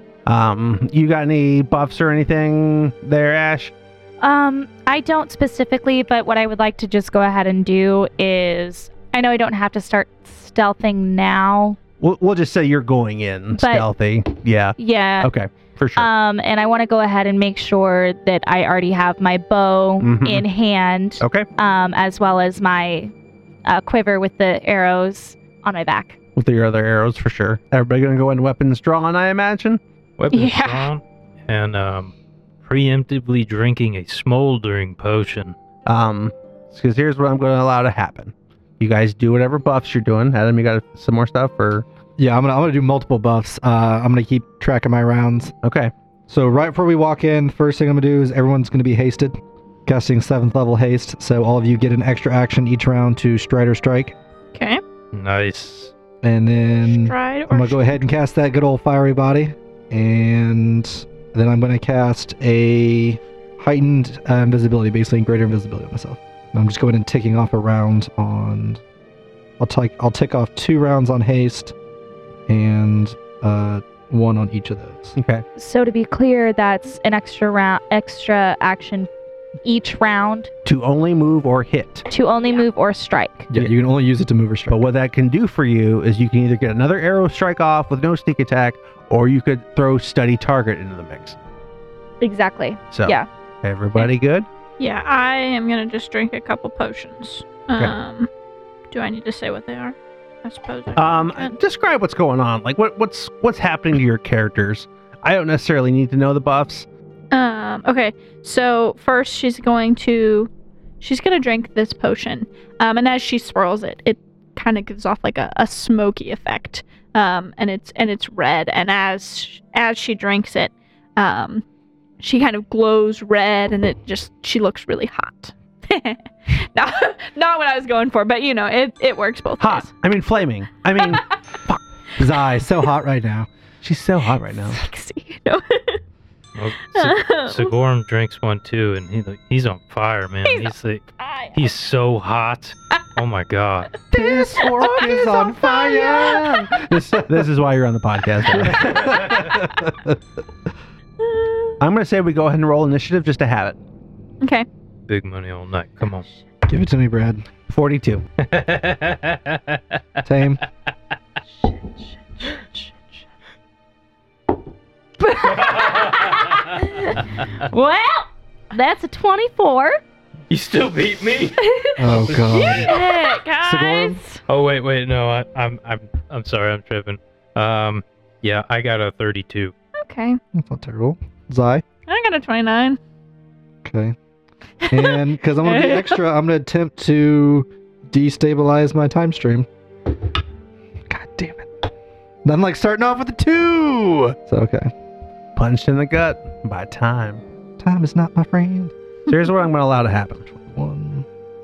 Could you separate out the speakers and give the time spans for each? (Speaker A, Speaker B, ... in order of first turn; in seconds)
Speaker A: 0.2-3.7, 12.0-16.1, 20.0-20.4, 21.2-21.5, 26.4-29.8, 35.9-41.9, 45.6-45.9, 75.2-75.4, 80.6-82.1, 84.7-91.4, 92.9-94.5, 101.0-106.9, 129.6-131.8, 133.8-134.8, 144.1-149.6, 151.8-153.8, 157.7-158.2, 195.6-197.4, 199.3-200.4
Speaker B: 4.2-11.8, 13.6-13.9, 14.8-15.3, 16.0-23.1, 23.6-26.2, 75.5-79.1, 79.6-80.5, 82.1-83.5, 92.2-93.3, 162.4-162.8, 165.2-166.0, 166.8-170.0
Speaker C: 30.2-35.5, 55.1-55.9, 136.6-143.9, 155.1-156.3, 158.4-159.9, 165.6-166.7, 170.5-172.9, 174.5-179.7
Speaker D: 30.3-30.9, 54.5-54.8, 56.8-58.0, 94.8-98.3, 98.9-101.5, 107.3-110.5, 111.0-121.6, 122.2-129.9, 134.7-136.0, 136.9-137.7, 140.4-141.6, 144.5-146.6, 151.2-151.7, 154.4-154.7, 171.6-174.4, 180.0-180.4, 182.1-183.0, 184.8-186.2
Speaker E: 42.2-45.5, 46.3-54.1, 56.2-68.8, 69.6-71.7, 72.5-75.2, 83.5-84.8, 132.2-133.5, 144.2-147.2, 148.5-150.2, 156.7-157.4, 160.2-160.6, 172.0-173.0, 173.6-174.2, 180.5-181.8, 183.8-184.2, 184.9-189.7, 191.1-191.8, 192.4-194.9, 197.8-198.9, 200.5-201.2